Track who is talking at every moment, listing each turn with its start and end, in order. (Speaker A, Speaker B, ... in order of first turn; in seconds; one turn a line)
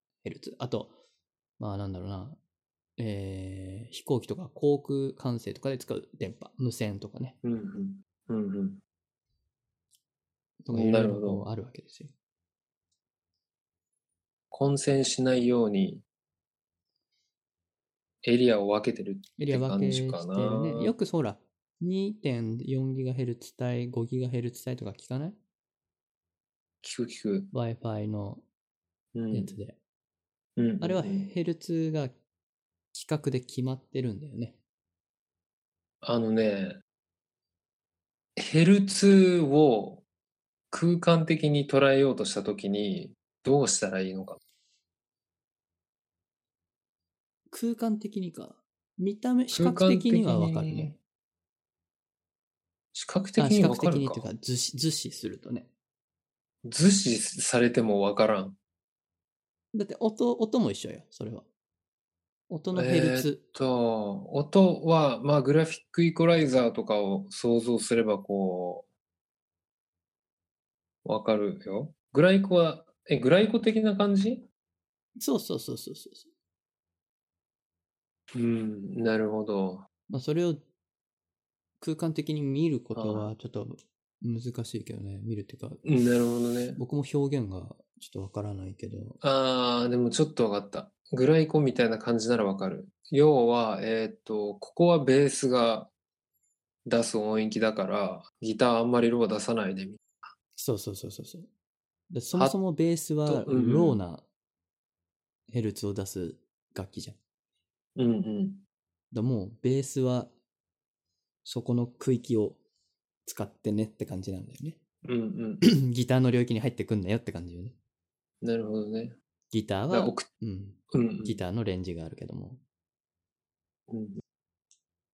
Speaker A: 0.2-0.9
Speaker A: 1.6-2.4
Speaker A: 3.0-7.4
Speaker B: 7.4-8.8
Speaker A: 10.6-12.1
Speaker B: 10.7-11.4
Speaker B: 14.5-16.0
Speaker B: 18.2-20.9
Speaker A: 19.4-25.4
Speaker B: 26.8-27.5
Speaker A: 27.5-28.4
Speaker B: 29.1-29.6
Speaker A: 29.3-29.8
Speaker B: 30.6-31.3
Speaker A: 30.8-32.1
Speaker A: 32.9-34.6
Speaker B: 36.0-36.8
Speaker B: 38.4-40.0
Speaker B: 40.7-44.4
Speaker A: 47.5-50.9
Speaker B: 49.5-51.0
Speaker B: 52.9-54.3
Speaker A: 53.4-55.7
Speaker B: 56.6-58.6
Speaker A: 59.7-61.4
Speaker A: 62.5-63.4
Speaker B: 62.7-68.8
Speaker B: 71.0-74.4
Speaker A: 75.2-76.3
Speaker B: 78.3-79.8
Speaker A: 80.1-80.6
Speaker A: 81.8-85.8
Speaker B: 82.9-83.3
Speaker B: 85.8-86.8
Speaker A: 86.8-89.2
Speaker B: 89.2-95.9
Speaker B: 96.8-100.3
Speaker A: 100.5-101.5
Speaker A: 102.1-104.2
Speaker B: 103.2-104.0
Speaker A: 105.5-107.2
Speaker B: 108.0-108.6
Speaker A: 109.1-110.3
Speaker A: 111.4-112.6
Speaker A: 113.2-114.8
Speaker B: 115.0-115.7
Speaker A: 115.6-117.7
Speaker B: 118.4-119.1
Speaker A: 119.5-122.6
Speaker B: 119.9-120.2
Speaker B: 120.9-121.4
Speaker B: 123.9-124.2